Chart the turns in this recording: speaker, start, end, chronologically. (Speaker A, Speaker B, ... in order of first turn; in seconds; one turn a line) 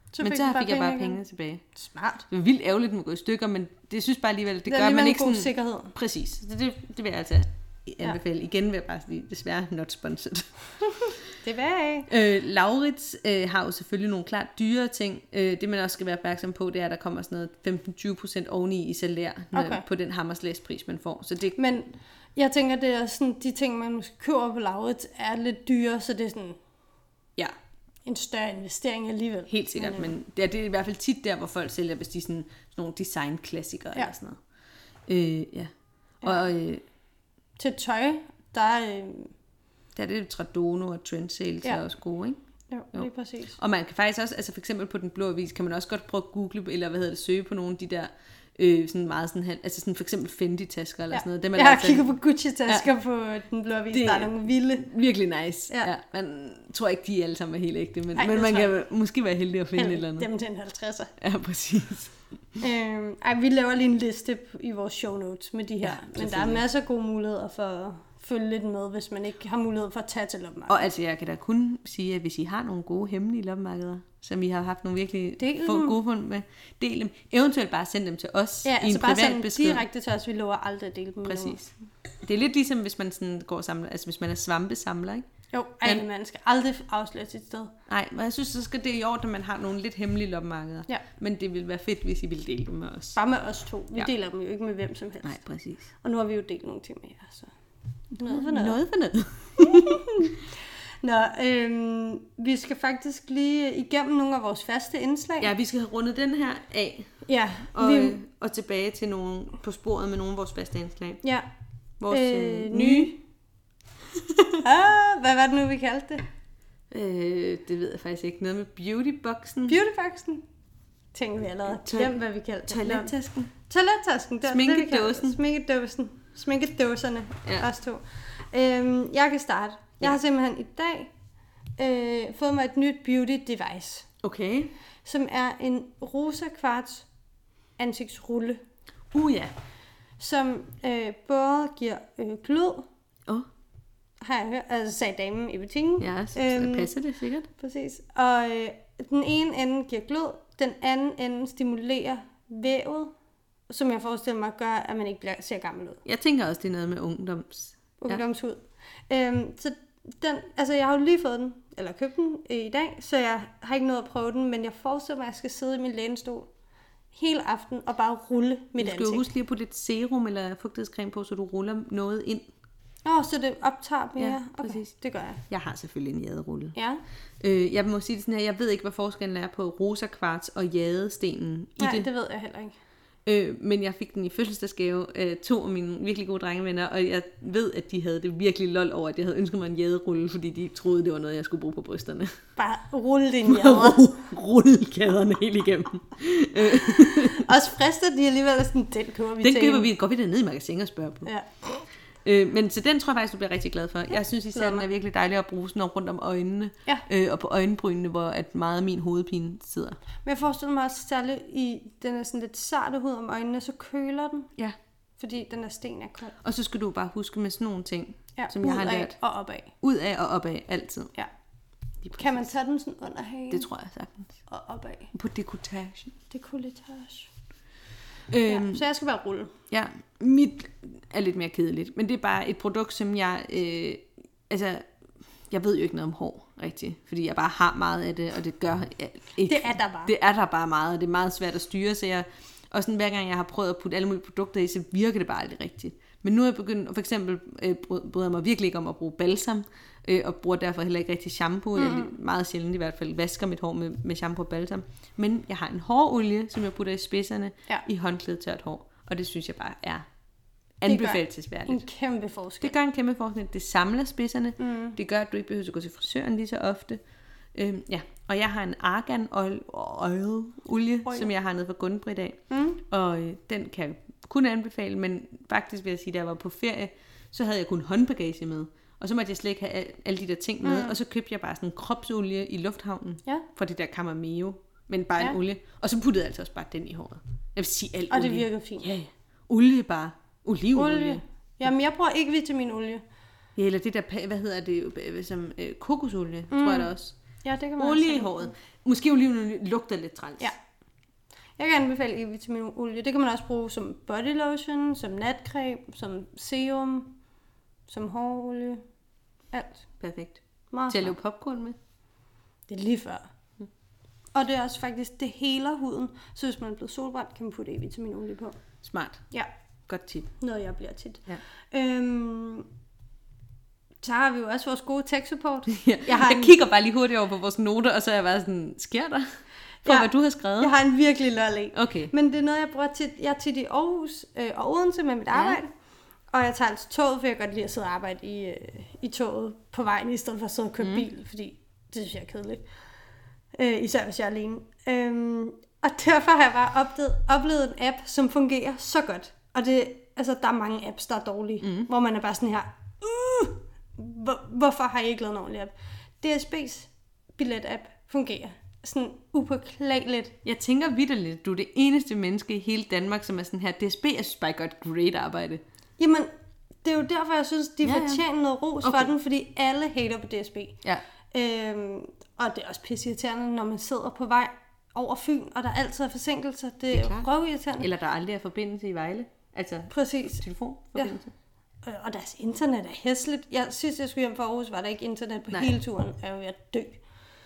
Speaker A: 0.1-1.2
Speaker B: 0.2-1.6
Speaker A: 1.7-2.2
Speaker B: 2.3-11.1
Speaker A: 4.7-5.9
Speaker A: 11.0-12.1
Speaker B: 12.1-21.6
Speaker A: 19.5-19.8
Speaker A: 21.6-26.6
Speaker A: 28.1-30.1
Speaker B: 29.5-34.4
Speaker B: 35.1-35.7
Speaker B: 36.2-36.8
Speaker A: 37.6-39.3
Speaker B: 39.9-42.4
Speaker A: 42.7-43.6
Speaker B: 42.9-52.1
Speaker A: 51.1-54.9
Speaker B: 53.9-60.3
Speaker A: 58.1-58.8
Speaker A: 59.7-61.1
Speaker B: 61.2-62.1
Speaker A: 62.6-70.9
Speaker B: 65.8-66.6
Speaker B: 70.7-79.8
Speaker A: 75.4-76.0
Speaker A: 78.6-81.6
Speaker B: 81.2-85.2
Speaker A: 85.5-87.7
Speaker B: 87.9-93.2
Speaker A: 93.1-95.4
Speaker B: 95.2-95.9
Speaker A: 96.0-97.5
Speaker B: 98.2-100.0
Speaker A: 98.2-98.8
Speaker A: 99.6-105.5
Speaker B: 105.4-107.1
Speaker A: 107.2-108.2
Speaker B: 107.7-111.2
Speaker B: 112.0-113.1
Speaker A: 112.1-113.2
Speaker B: 114.1-114.6
Speaker A: 114.6-116.2
Speaker B: 116.9-119.8
Speaker A: 119.7-120.4
Speaker A: 121.1-131.1
Speaker B: 121.7-123.5
Speaker B: 124.4-125.4
Speaker A: 131.8-134.1
Speaker B: 134.2-134.7
Speaker A: 135.0-137.1
Speaker A: 137.8-138.6
Speaker B: 139.1-139.5
Speaker A: 140.2-142.9
Speaker A: 144.2-146.9
Speaker B: 146.0-147.5
Speaker A: 147.5-153.1
Speaker A: 153.7-156.0
Speaker B: 156.0-158.2
Speaker A: 158.0-166.5
Speaker A: 167.1-169.3
Speaker B: 168.8-172.5
Speaker A: 173.0-175.4
Speaker B: 174.2-174.9
Speaker B: 175.5-176.8
Speaker A: 176.7-177.0
Speaker B: 177.4-182.1
Speaker A: 181.8-182.8
Speaker B: 183.2-192.3
Speaker A: 192.6-194.1
Speaker B: 193.4-197.5
Speaker A: 196.7-199.9
Speaker B: 199.4-201.3
Speaker A: 201.2-201.6
Speaker B: 202.2-210.0
Speaker A: 204.5-204.8
Speaker A: 210.2-214.5
Speaker A: 215.2-216.3
Speaker B: 216.4-219.2
Speaker A: 218.4-219.7
Speaker B: 219.8-221.1
Speaker B: 222.0-222.5
Speaker A: 222.2-223.7
Speaker B: 223.5-224.3
Speaker A: 224.5-225.1
Speaker B: 225.1-226.1
Speaker A: 226.3-227.3
Speaker B: 228.3-228.8
Speaker A: 228.4-229.5
Speaker B: 229.7-234.9
Speaker B: 235.5-260.0
Speaker A: 239.4-240.1
Speaker A: 251.8-252.1
Speaker B: 260.8-261.8
Speaker A: 260.9-262.7
Speaker B: 262.6-267.0
Speaker A: 264.6-264.9
Speaker B: 267.5-291.2
Speaker A: 272.5-272.8
Speaker A: 280.6-280.9
Speaker A: 288.1-288.9
Speaker A: 290.7-293.0
Speaker B: 293.6-297.1
Speaker A: 296.5-296.9
Speaker A: 297.4-298.5
Speaker B: 297.8-300.5
Speaker A: 301.6-307.1
Speaker A: 307.9-308.8
Speaker A: 309.5-309.9
Speaker B: 310.0-311.8
Speaker A: 310.7-311.1
Speaker A: 312.7-313.2
Speaker A: 314.3-318.6
Speaker B: 318.8-319.2
Speaker B: 319.9-320.3
Speaker A: 320.4-322.7
Speaker A: 324.0-326.6
Speaker B: 325.7-329.2
Speaker B: 329.8-330.7
Speaker A: 329.8-335.7
Speaker B: 331.7-332.1
Speaker B: 335.3-335.6
Speaker A: 336.3-342.6
Speaker B: 340.8-341.1
Speaker A: 343.5-360.3
Speaker B: 351.6-351.9
Speaker B: 360.4-365.6
Speaker A: 366.0-366.3
Speaker A: 366.8-377.9
Speaker B: 367.8-368.2
Speaker B: 368.8-369.1
Speaker B: 376.9-381.3
Speaker A: 379.9-380.4
Speaker A: 381.8-387.0
Speaker B: 385.5-385.8